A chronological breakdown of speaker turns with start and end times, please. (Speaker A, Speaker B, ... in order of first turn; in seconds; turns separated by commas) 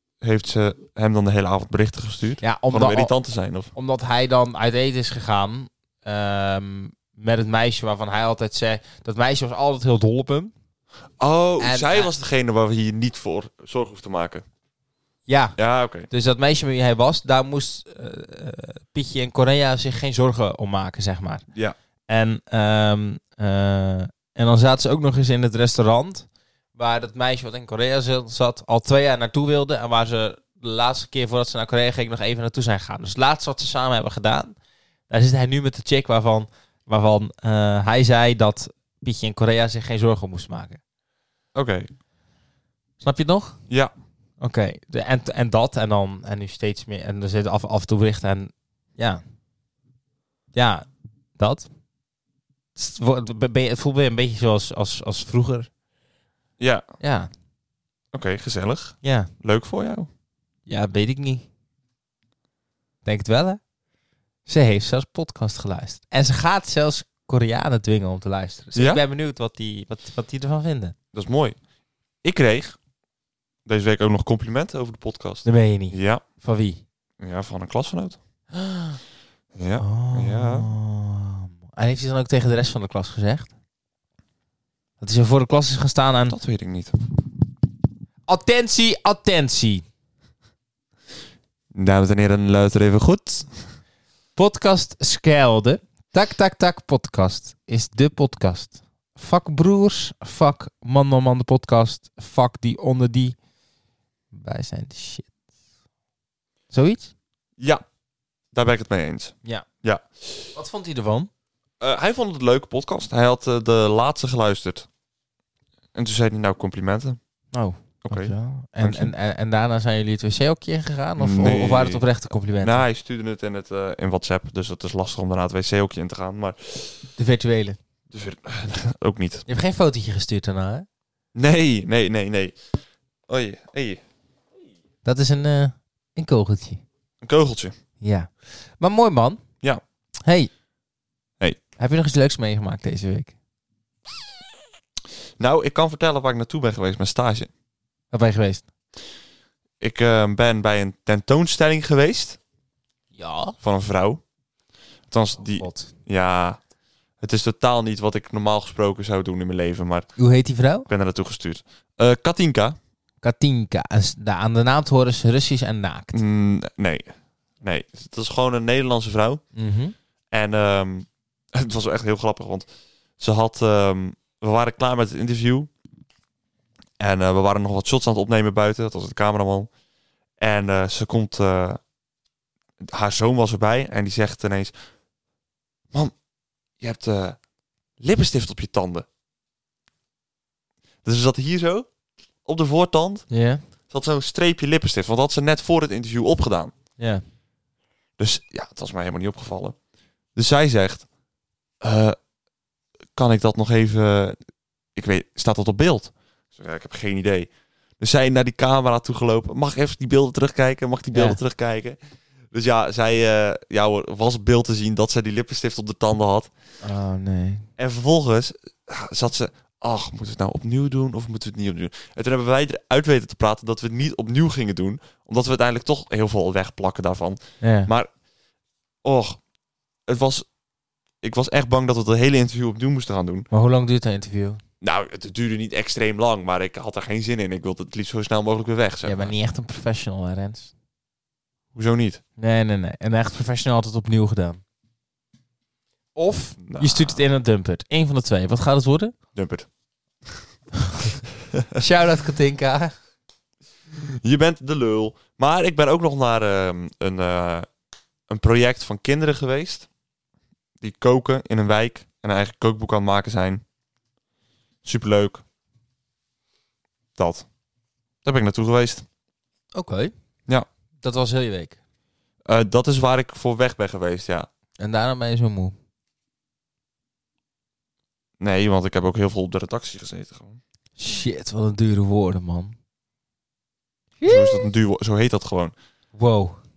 Speaker A: 0.2-3.7, Speaker B: 2.4-3.1, Speaker B: 3.7-10.5, Speaker A: 11.2-14.4, Speaker B: 11.6-12.1, Speaker B: 15.3-15.6, Speaker A: 15.6-16.1, Speaker B: 16.1-21.4, Speaker B: 22.1-34.5, Speaker B: 35.1-40.8, Speaker A: 41.5-41.9, Speaker B: 43.0-43.6, Speaker B: 44.4-49.2, Speaker B: 50.5-51.7, Speaker B: 52.8-55.7, Speaker A: 56.6-56.8, Speaker B: 57.0-57.3, Speaker A: 58.1-60.1, Speaker B: 59.0-59.3, Speaker B: 60.7-61.5, Speaker B: 63.0-63.6, Speaker B: 64.5-70.9, Speaker A: 68.8-69.0, Speaker A: 71.1-71.6, Speaker A: 72.2-72.8, Speaker A: 73.7-76.2, Speaker B: 75.4-76.8, Speaker A: 77.2-78.2, Speaker B: 78.5-79.0, Speaker A: 79.5-80.7, Speaker B: 79.8-83.5, Speaker B: 85.0-86.3, Speaker A: 86.3-86.9, Speaker B: 88.3-89.8, Speaker A: 91.7-93.6, Speaker B: 94.3-103.3, Speaker B: 104.3-105.3, Speaker B: 106.7-107.1, Speaker A: 107.6-107.8, Speaker A: 108.5-110.3, Speaker B: 110.5-111.3, Speaker A: 111.8-114.9, Speaker A: 115.9-117.2, Speaker B: 117.5-122.8, Speaker A: 118.0-119.1, Speaker A: 121.2-122.0, Speaker A: 122.6-127.1, Speaker B: 127.2-127.8, Speaker A: 128.1-129.4, Speaker B: 129.5-130.8, Speaker A: 131.3-132.5, Speaker A: 133.3-134.0, Speaker B: 135.0-136.8, Speaker A: 137.2-137.7, Speaker B: 138.0-139.4, Speaker B: 140.2-140.5, Speaker B: 141.8-143.3, Speaker A: 145.4-147.5, Speaker B: 148.1-148.6, Speaker A: 149.8-152.4, Speaker B: 153.1-153.5, Speaker A: 153.6-154.2, Speaker A: 155.1-156.6, Speaker B: 155.6-155.9, Speaker A: 157.2-160.1, Speaker B: 160.2-160.9, Speaker A: 160.9-162.8, Speaker B: 163.2-166.2, Speaker A: 166.1-169.4, Speaker B: 169.5-169.9, Speaker A: 170.3-172.7, Speaker A: 173.2-175.7, Speaker A: 177.0-179.7, Speaker A: 180.4-181.8, Speaker A: 182.8-184.7, Speaker A: 186.8-187.4, Speaker A: 188.0-189.1, Speaker A: 191.0-191.9, Speaker A: 192.4-193.3, Speaker B: 193.3-193.6, Speaker A: 193.9-196.7, Speaker B: 197.0-197.2, Speaker A: 198.2-199.8, Speaker A: 200.3-201.0, Speaker A: 201.8-202.2, Speaker A: 203.1-204.3, Speaker A: 204.9-212.0, Speaker B: 211.1-211.4, Speaker A: 212.5-216.5, Speaker B: 216.8-217.7, Speaker A: 217.8-228.1, Speaker B: 227.6-227.9, Speaker A: 229.0-229.4, Speaker A: 230.1-230.5, Speaker A: 231.2-233.5, Speaker B: 233.5-234.6, Speaker A: 234.8-239.3, Speaker B: 239.0-240.7, Speaker A: 241.7-242.2, Speaker B: 242.4-244.6, Speaker B: 246.1-249.1, Speaker A: 246.6-247.2, Speaker A: 249.3-249.7, Speaker B: 250.9-251.2, Speaker A: 251.5-251.8, Speaker B: 251.8-252.9, Speaker A: 254.0-257.7, Speaker A: 258.3-259.9, Speaker A: 260.8-263.6, Speaker A: 264.8-265.4, Speaker A: 267.2-267.4, Speaker A: 268.2-269.0, Speaker B: 269.7-270.1, Speaker B: 271.0-271.8, Speaker A: 272.4-274.5, Speaker B: 274.8-275.7, Speaker A: 278.4-280.6, Speaker B: 281.0-282.7, Speaker B: 284.2-284.6, Speaker A: 284.2-285.7, Speaker B: 286.1-286.6